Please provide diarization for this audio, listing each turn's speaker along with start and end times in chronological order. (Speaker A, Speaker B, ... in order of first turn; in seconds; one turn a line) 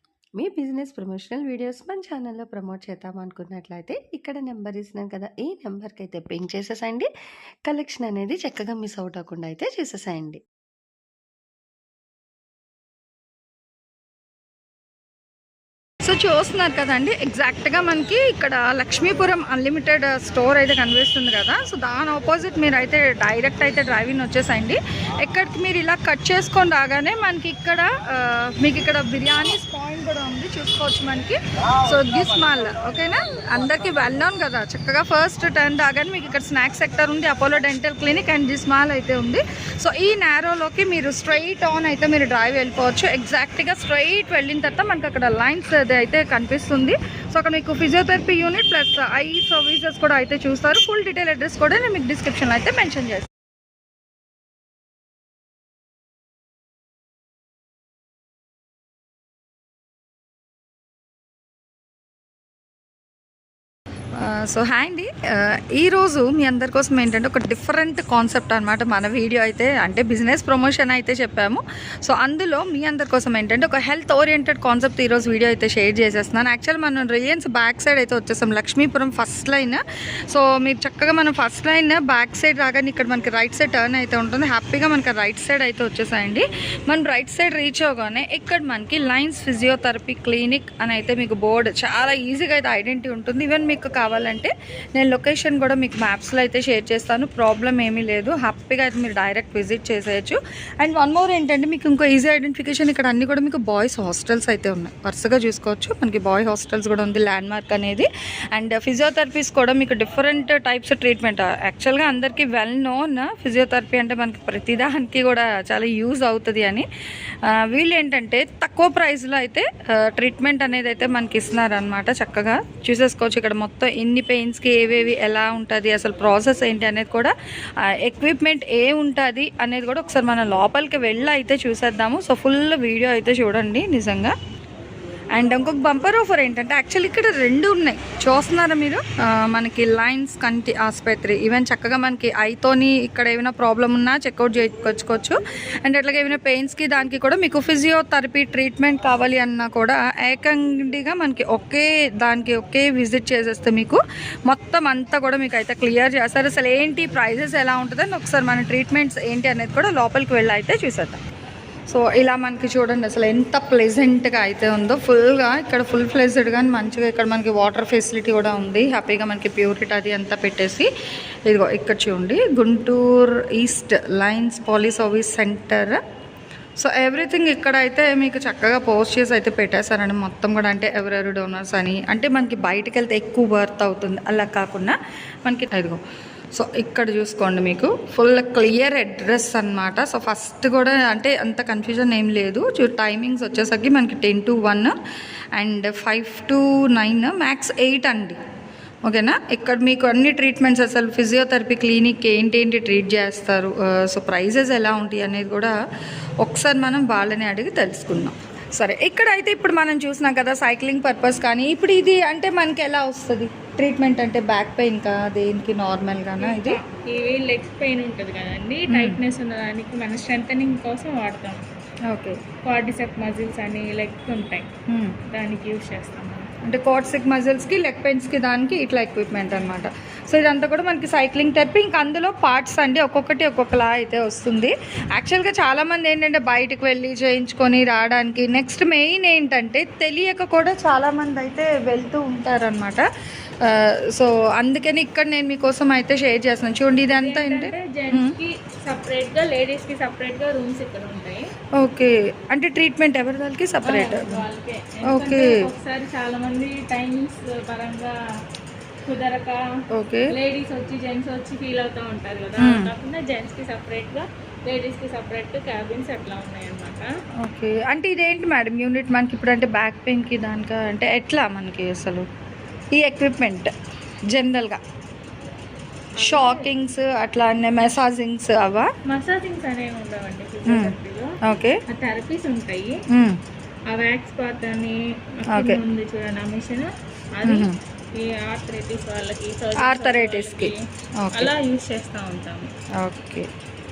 Speaker A: 0.4-7.1
Speaker A: 7.7-10.4
Speaker B: 16.0-53.3
Speaker B: 64.2-116.8
Speaker B: 117.5-127.3
Speaker B: 128.0-134.3
Speaker B: 135.3-161.2
Speaker B: 161.9-170.9
Speaker B: 171.5-176.0
Speaker B: 176.8-186.0
Speaker B: 186.5-194.9
Speaker B: 195.5-198.3
Speaker B: 199.1-205.7
Speaker B: 206.4-216.8
Speaker C: 216.4-221.6
Speaker B: 218.9-219.2
Speaker B: 222.1-222.4
Speaker C: 222.6-224.7
Speaker B: 224.9-225.2
Speaker C: 225.3-226.5
Speaker B: 226.6-243.0
Speaker B: 243.6-248.3
Speaker C: 247.1-251.5
Speaker B: 251.8-254.4
Speaker C: 253.9-258.1
Speaker B: 255.1-255.5
Speaker C: 259.1-259.6
Speaker B: 259.9-260.3
Speaker C: 260.3-267.1
Speaker B: 262.6-262.9
Speaker B: 267.4-272.2
Speaker B: 272.9-273.7
Speaker B: 274.3-274.8
Speaker C: 276.2-276.7
Speaker B: 276.2-278.9
Speaker C: 279.1-281.3
Speaker B: 280.7-280.9
Speaker B: 281.4-281.8
Speaker C: 281.9-283.0
Speaker B: 283.1-283.4
Speaker C: 283.9-290.8
Speaker B: 285.5-285.8
Speaker B: 287.4-287.7
Speaker B: 289.8-290.7
Speaker B: 291.2-291.5
Speaker C: 291.3-292.7
Speaker B: 293.0-293.5